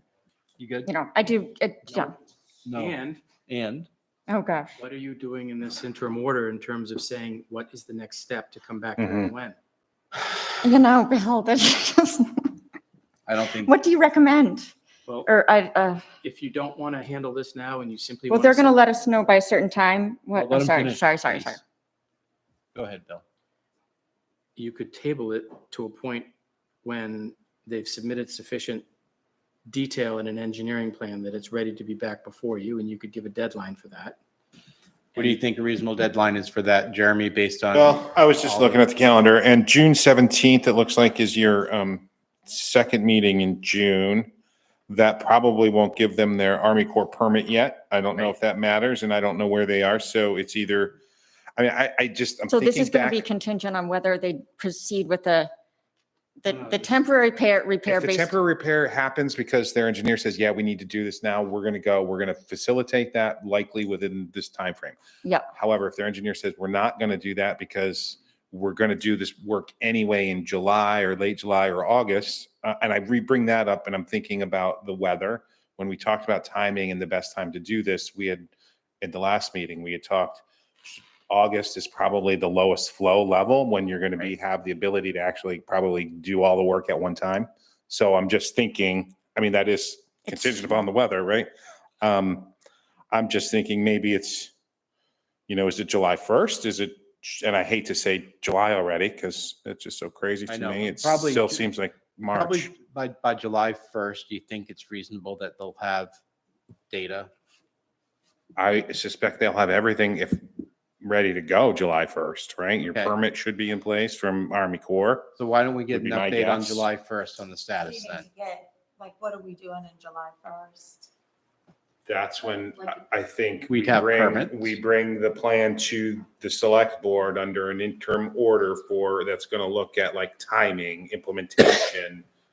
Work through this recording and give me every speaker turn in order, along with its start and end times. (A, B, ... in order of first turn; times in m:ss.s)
0:00.6-0:00.9 A
0:00.9-0:02.2 B
0:02.6-0:03.9 A
0:02.7-0:03.2 C
0:04.3-0:04.7 B
0:04.8-0:09.6 C
0:09.0-0:09.3 D
0:10.6-0:12.5 B
0:13.3-0:13.7 A
0:13.5-0:14.7 B
0:15.2-0:16.0 B
0:16.2-0:18.8 C
0:18.3-0:21.6 B
0:20.3-0:21.6 A
0:22.8-0:23.2 A
0:24.6-0:26.3 C
0:26.8-0:28.8 C
0:29.7-0:34.2 C
0:35.2-0:38.8 A
0:37.7-0:44.3 D
0:44.9-0:51.0 D
0:51.6-0:53.2 D
0:52.5-0:55.5 B
0:56.4-0:58.3 B
0:56.5-0:56.9 A
0:57.9-1:05.0 D
1:05.5-1:31.5 D
1:32.0-1:32.5 D
1:33.1-1:34.5 D
1:35.5-1:42.7 D
1:40.5-1:41.7 A
1:42.3-1:46.1 A
1:46.9-1:47.3 A
1:48.6-1:50.5 D
1:51.0-1:55.4 D
1:55.4-1:58.3 A
1:55.9-1:56.9 D
1:57.8-2:01.1 E
2:02.1-2:12.2 D
2:03.7-2:04.8 A